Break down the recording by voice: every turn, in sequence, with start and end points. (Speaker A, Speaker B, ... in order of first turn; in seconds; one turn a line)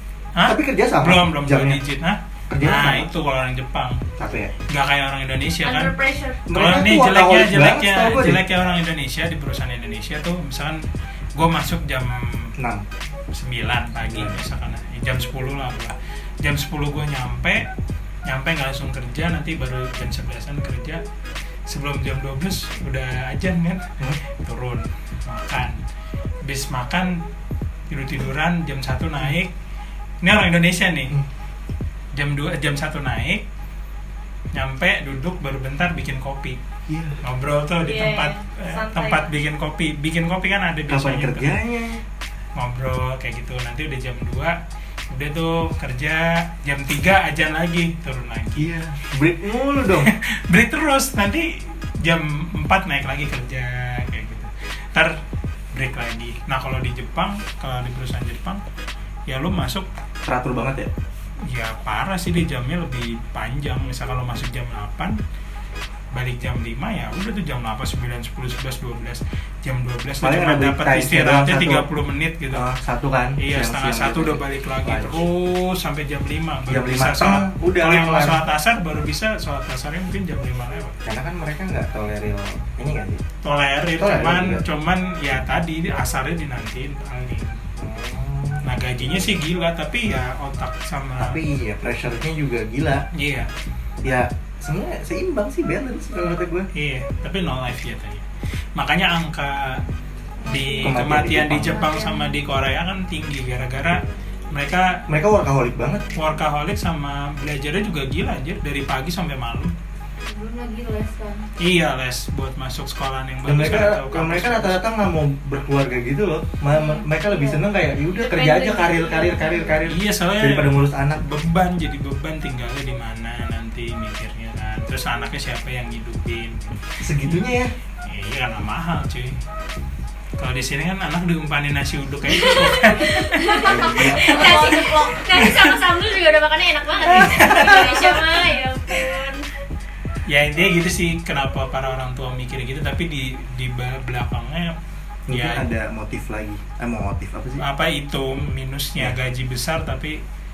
Speaker A: 0.3-4.0
Speaker B: 0.4-1.8
Speaker B: 2.5-3.1
Speaker B: 4.2-4.5
Speaker A: 4.7-6.0
Speaker C: 5.6-6.4
Speaker B: 6.5-8.4
Speaker A: 6.5-10.8
Speaker A: 11.4-12.5
Speaker B: 12.6-12.8
Speaker A: 13.3-17.6
Speaker B: 14.1-14.4
Speaker A: 18.2-21.0
Speaker A: 21.7-23.8
Speaker A: 24.4-25.8
Speaker A: 26.4-27.2
Speaker A: 27.9-29.5
Speaker A: 30.2-31.1
Speaker A: 32.1-33.4
Speaker A: 34.5-36.6
Speaker B: 36.9-37.2
Speaker A: 37.2-41.5
Speaker C: 37.8-39.3
Speaker B: 40.9-42.0
Speaker A: 42.5-44.5
Speaker A: 45.1-48.7
Speaker B: 48.6-50.1
Speaker A: 50.0-55.1
Speaker A: 55.7-58.6
Speaker A: 59.3-59.9
Speaker B: 60.2-60.9
Speaker A: 61.4-65.2
Speaker A: 66.1-72.7
Speaker B: 70.2-71.9
Speaker B: 72.5-75.2
Speaker A: 73.4-81.0
Speaker B: 76.7-78.4
Speaker B: 81.0-83.2
Speaker A: 83.4-87.6
Speaker B: 84.0-84.6
Speaker B: 87.8-89.4
Speaker A: 88.6-91.4
Speaker B: 91.2-93.0
Speaker A: 93.1-93.5
Speaker B: 94.0-96.7
Speaker A: 96.7-98.2
Speaker A: 98.8-99.8
Speaker D: 100.4-100.9
Speaker A: 100.4-105.0
Speaker B: 100.8-101.9
Speaker D: 101.7-102.3
Speaker B: 105.1-106.1
Speaker A: 106.1-109.7
Speaker D: 110.3-111.5
Speaker A: 111.6-114.8
Speaker B: 113.4-121.2
Speaker C: 116.7-117.0
Speaker C: 118.2-119.6
Speaker D: 118.8-119.7
Speaker A: 119.8-127.3
Speaker B: 127.0-127.7
Speaker A: 128.1-129.3
Speaker A: 130.4-134.0
Speaker E: 132.3-139.4
Speaker B: 133.6-134.4
Speaker C: 134.3-135.2
Speaker A: 134.6-135.7
Speaker A: 137.1-138.1
Speaker B: 137.2-137.7
Speaker A: 140.3-144.8
Speaker B: 145.3-147.6
Speaker A: 145.3-145.6
Speaker A: 147.6-150.2